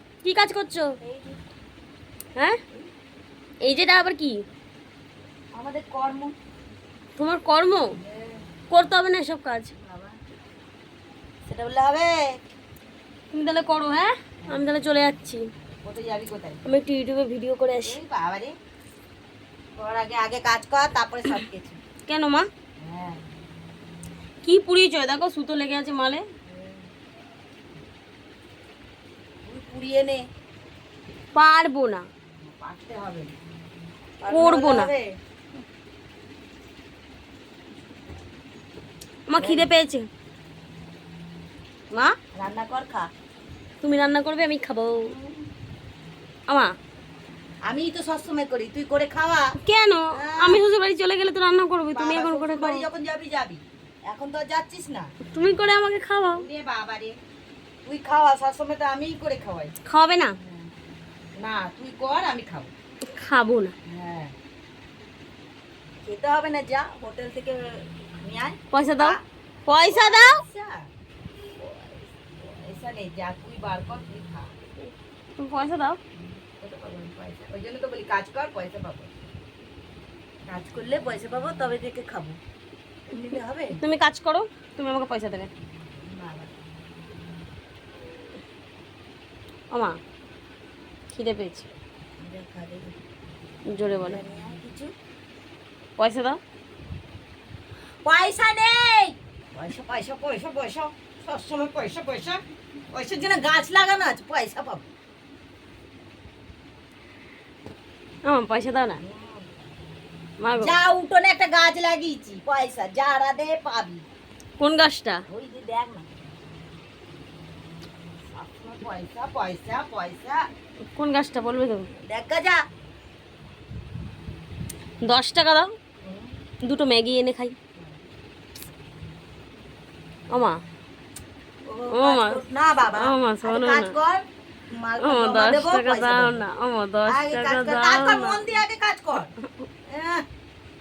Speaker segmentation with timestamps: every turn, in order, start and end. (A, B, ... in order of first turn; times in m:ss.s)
0:00.2-0:00.9 A
0:01.0-0:01.4 B
0:03.6-0:04.4 A
0:05.6-0:06.4 B
0:07.2-0:08.0 A
0:07.9-0:08.4 B
0:08.7-0:09.7 A
0:09.8-0:10.2 B
0:11.4-0:12.2 B
0:13.3-0:15.4 A
0:15.8-0:16.6 B
0:16.6-0:18.0 A
0:17.8-0:18.5 B
0:19.8-0:21.8 B
0:22.1-0:22.5 A
0:22.8-0:23.2 B
0:24.4-0:26.2 A
0:26.5-0:26.9 B
0:29.4-0:30.2 B
0:31.4-0:32.0 A
0:32.4-0:33.3 B
0:34.2-0:35.1 B
0:34.3-0:34.9 A
0:39.3-0:40.1 A
0:39.4-0:39.7 B
0:42.4-0:43.1 B
0:43.8-0:45.1 A
0:45.0-0:45.5 B
0:47.7-0:49.5 B
0:49.6-0:52.8 A
0:50.2-0:50.6 B
0:51.9-0:55.1 B
0:55.3-0:56.5 A
0:56.3-0:57.1 B
0:57.9-0:59.7 B
0:59.9-1:00.4 A
1:00.4-1:00.7 B
1:01.4-1:02.7 B
1:03.1-1:03.7 A
1:03.9-1:04.3 B
1:06.0-1:09.2 B
1:08.7-1:10.4 A
1:09.8-1:10.9 B
1:11.6-1:14.5 B
1:15.4-1:16.0 A
1:16.2-1:19.2 B
1:20.5-1:22.4 B
1:23.1-1:23.8 B
1:23.8-1:25.5 A
1:26.0-1:26.5 B
1:29.7-1:30.0 A
1:31.1-1:31.7 A
1:32.2-1:33.0 B
1:33.7-1:34.2 A
1:33.9-1:34.9 B
1:36.0-1:36.4 A
1:38.0-1:42.4 B
1:42.9-1:44.8 B
1:48.3-1:49.0 A
1:49.0-1:49.5 B
1:50.4-1:50.8 A
1:50.6-1:54.0 B
1:54.6-1:55.2 A
1:55.3-1:56.1 B
1:58.3-2:00.4 B
2:01.0-2:01.9 A
2:02.1-2:02.6 B
2:05.0-2:05.7 A
2:06.0-2:06.3 B
2:06.6-2:07.6 A
2:07.8-2:08.1 B
2:10.3-2:10.6 A
2:11.7-2:16.4 B
2:11.9-2:12.4 A
2:13.0-2:14.0 A
2:15.0-2:18.6 A
2:17.1-2:19.3 B
2:19.9-2:20.2 B